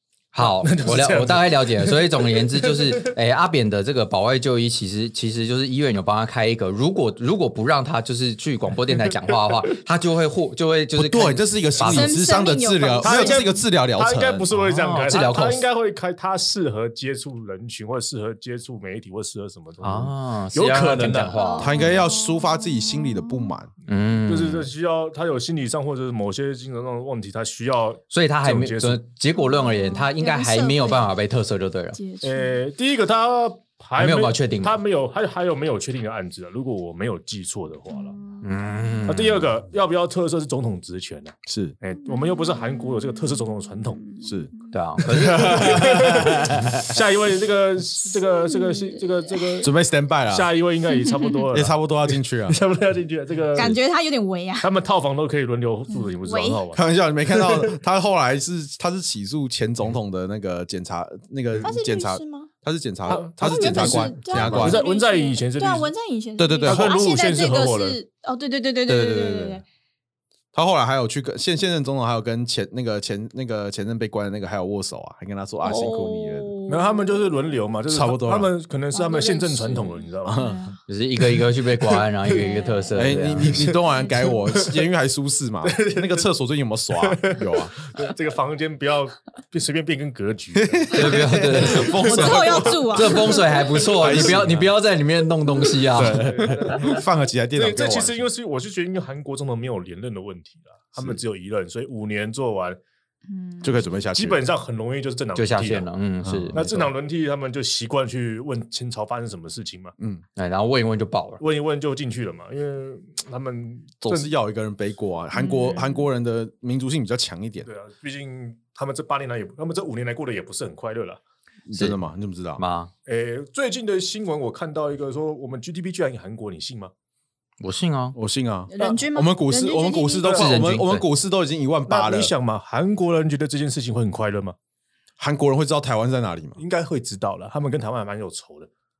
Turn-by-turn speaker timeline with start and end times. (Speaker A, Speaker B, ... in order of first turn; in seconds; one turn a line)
Speaker A: 0.3-12.1
Speaker B: 0.4-3.1
Speaker C: 10.9-14.5
Speaker D: 11.8-13.4
Speaker B: 13.0-21.4
Speaker A: 14.5-15.6
Speaker A: 19.8-21.8
Speaker D: 21.4-23.5
Speaker C: 21.6-23.7
Speaker A: 23.9-24.7
Speaker B: 24.2-29.0
Speaker A: 28.1-32.0
Speaker D: 29.4-31.1
Speaker D: 31.9-32.6
Speaker B: 32.2-38.2
Speaker A: 34.0-34.8
Speaker D: 37.9-38.5
Speaker A: 38.4-39.4
Speaker B: 39.0-44.1
Speaker C: 41.5-41.7
Speaker D: 42.3-42.9
Speaker D: 44.1-44.3
Speaker C: 44.2-44.5
Speaker A: 44.7-45.8
Speaker B: 45.0-49.7
Speaker C: 45.4-47.0
Speaker D: 48.5-49.0
Speaker C: 49.6-50.5
Speaker B: 50.3-53.8
Speaker D: 51.0-51.4
Speaker C: 51.5-52.6
Speaker D: 53.5-54.7
Speaker B: 54.6-57.8
Speaker D: 55.9-56.6
Speaker C: 56.7-64.8
Speaker D: 61.6-62.5
Speaker B: 63.1-65.9
Speaker D: 63.4-69.6
Speaker A: 64.4-64.7
Speaker C: 66.4-67.0
Speaker B: 66.6-68.0
Speaker C: 68.9-69.6
Speaker C: 70.5-76.5
Speaker D: 75.6-77.0
Speaker B: 76.7-80.5
Speaker C: 77.9-78.5
Speaker D: 78.9-80.8
Speaker C: 80.2-80.6
Speaker A: 80.9-83.7
Speaker D: 82.3-83.1
Speaker C: 82.9-87.9
Speaker B: 83.5-83.7
Speaker B: 84.4-84.8
Speaker B: 85.6-86.3
Speaker B: 86.9-91.8
Speaker C: 90.5-93.3
Speaker A: 90.9-96.2
Speaker D: 91.8-93.6
Speaker C: 94.0-94.7
Speaker B: 94.1-94.4
Speaker C: 96.0-98.2
Speaker B: 96.0-102.8
Speaker D: 103.3-103.7
Speaker C: 103.6-104.4
Speaker B: 104.1-105.9
Speaker A: 105.3-106.9
Speaker C: 106.2-106.6
Speaker B: 106.5-109.9
Speaker C: 110.0-110.2
Speaker A: 110.3-111.4
Speaker B: 111.4-114.3
Speaker C: 114.0-117.7
Speaker D: 115.3-116.0
Speaker B: 117.6-121.2
Speaker C: 121.7-122.6
Speaker A: 122.6-122.9
Speaker B: 123.0-126.9
Speaker A: 127.6-128.2
Speaker C: 128.1-132.3
Speaker D: 128.7-130.4
Speaker B: 130.2-130.6
Speaker A: 130.3-131.0
Speaker B: 131.9-134.6
Speaker C: 135.2-136.6
Speaker B: 136.6-138.7